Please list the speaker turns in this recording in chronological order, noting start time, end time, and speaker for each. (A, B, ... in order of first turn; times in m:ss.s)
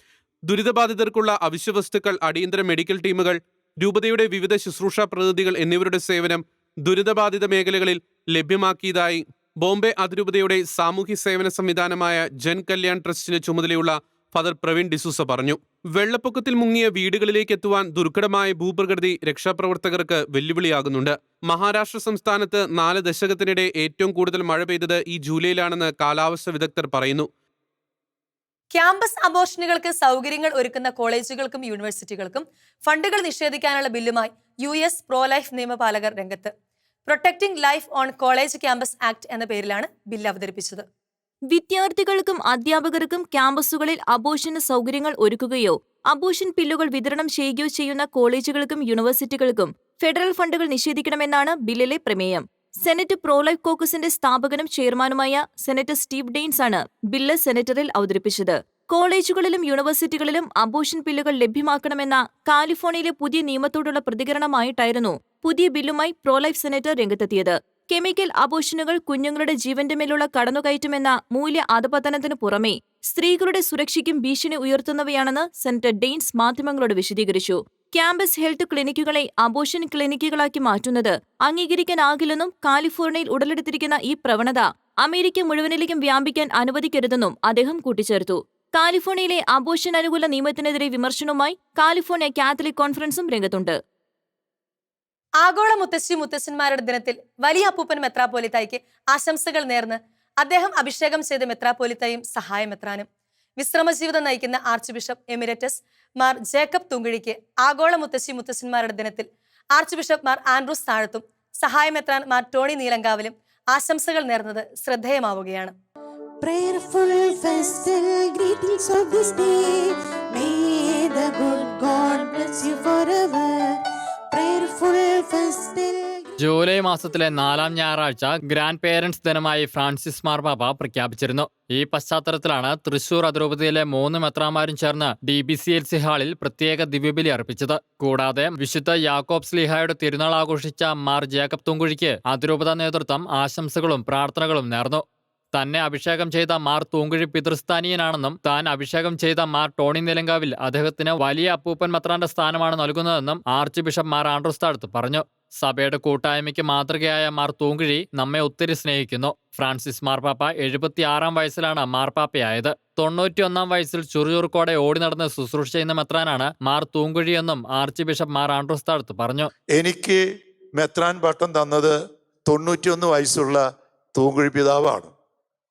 0:00.5-0:27.3 A
0:28.7-0:36.5 B
0:37.1-0:40.8 B
0:41.5-1:33.8 C
1:35.4-1:43.1 B
1:43.6-1:55.7 B
1:56.4-2:03.7 D
2:04.3-2:06.3 D
2:06.4-2:49.5 E
2:49.8-2:50.1 F
2:50.8-2:51.8 F
2:54.2-2:55.1 F